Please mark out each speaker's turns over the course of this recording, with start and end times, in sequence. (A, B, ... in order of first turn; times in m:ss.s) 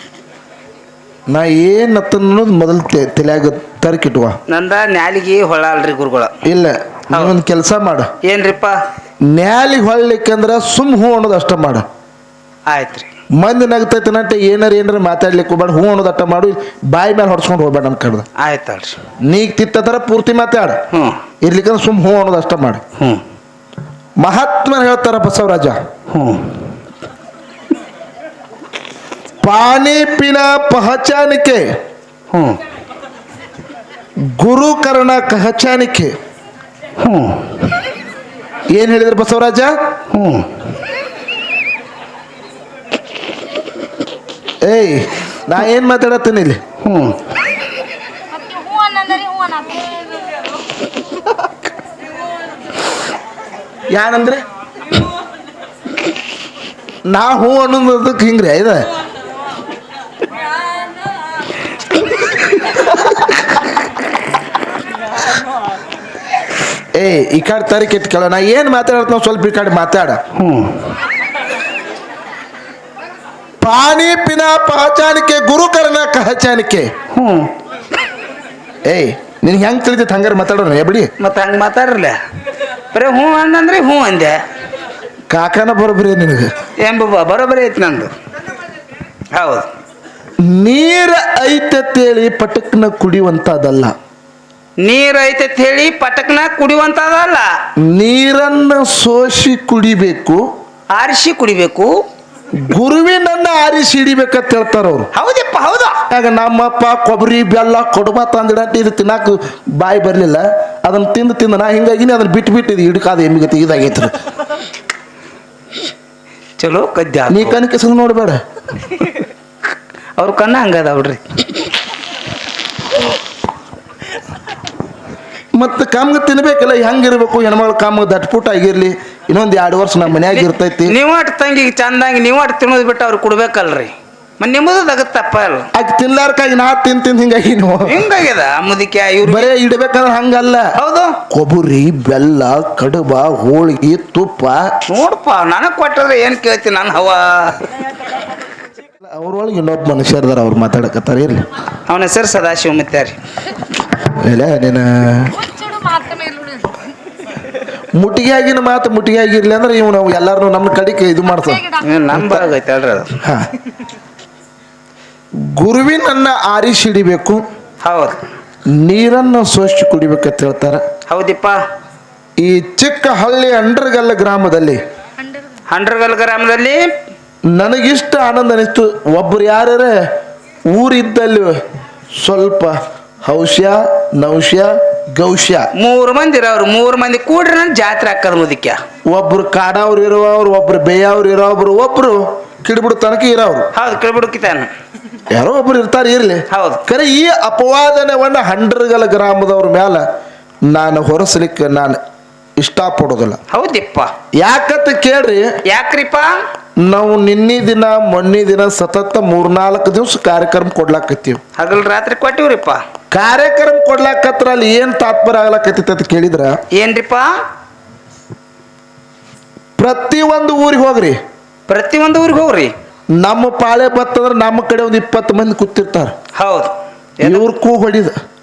0:01.3-0:04.4 A
0:04.5-0:06.4 B
0:06.4-0:08.1 A
0:08.2-0:08.8 B
0:09.2-0:11.8 A
0:12.7-0:13.1 B
0:13.4-0:18.3 A
0:18.4-0:19.0 B
0:19.2-0:20.8 A
0:20.9-0:21.2 B
0:21.4-0:22.8 A
0:24.2-0:25.8 A
0:26.1-0:26.7 B
0:29.4-0:31.8 A
0:32.3-0:32.6 B
0:34.2-0:36.1 A
0:37.0-0:37.6 B
0:38.7-0:39.8 A
0:40.1-0:40.6 B
0:44.6-0:46.6 A
0:46.8-0:47.2 B
0:48.3-0:50.5 C
0:53.9-0:54.4 A
0:57.1-0:58.8 A
1:07.0-1:10.2 A
1:10.4-1:10.9 B
1:13.6-1:16.9 A
1:17.1-1:17.5 B
1:18.8-1:21.1 A
1:21.2-1:22.2 B
1:22.9-1:24.4 B
1:25.3-1:26.5 A
1:26.8-1:28.1 B
1:29.3-1:29.7 B
1:30.4-1:33.9 A
1:34.8-1:37.5 B
1:37.8-1:40.5 A
1:40.9-1:42.0 B
1:42.5-1:45.1 A
1:45.1-1:46.0 B
1:46.1-1:54.2 A
1:56.6-1:57.6 B
1:57.3-1:58.4 A
2:00.2-2:01.7 B
2:05.6-2:11.0 A
2:10.2-2:15.7 B
2:15.7-2:18.0 A
2:17.8-2:19.5 B
2:19.2-2:20.7 A
2:20.8-2:21.2 B
2:21.3-2:24.8 A
2:24.9-2:27.6 B
2:29.0-2:31.5 A
2:31.9-2:33.2 B
2:34.0-2:35.4 A
2:35.3-2:36.8 C
2:37.9-2:42.4 A
2:41.3-2:41.9 C
2:41.8-2:43.2 B
2:43.2-2:43.5 A
2:45.4-2:47.4 A
2:47.8-2:48.2 B
2:48.7-2:50.8 A
2:51.1-2:51.6 B
2:52.4-2:54.8 A
2:55.2-2:55.5 C
2:55.7-2:56.9 B
2:57.5-3:00.1 A
3:00.7-3:01.6 A
3:02.2-3:05.7 A
3:05.8-3:08.8 B
3:09.1-3:13.7 A
3:13.7-3:14.7 B
3:15.3-3:20.1 A
3:16.5-3:16.8 B
3:20.7-3:22.0 A
3:22.6-3:23.4 A
3:23.5-3:24.1 B
3:24.4-3:25.6 A
3:25.6-3:26.4 B
3:26.8-3:31.4 A
3:31.6-3:32.8 B
3:33.1-3:36.6 A
3:36.7-3:37.4 B
3:39.8-3:41.2 A
3:41.7-3:42.7 B
3:43.2-3:46.2 A
3:46.4-3:47.4 B
3:47.2-3:48.2 A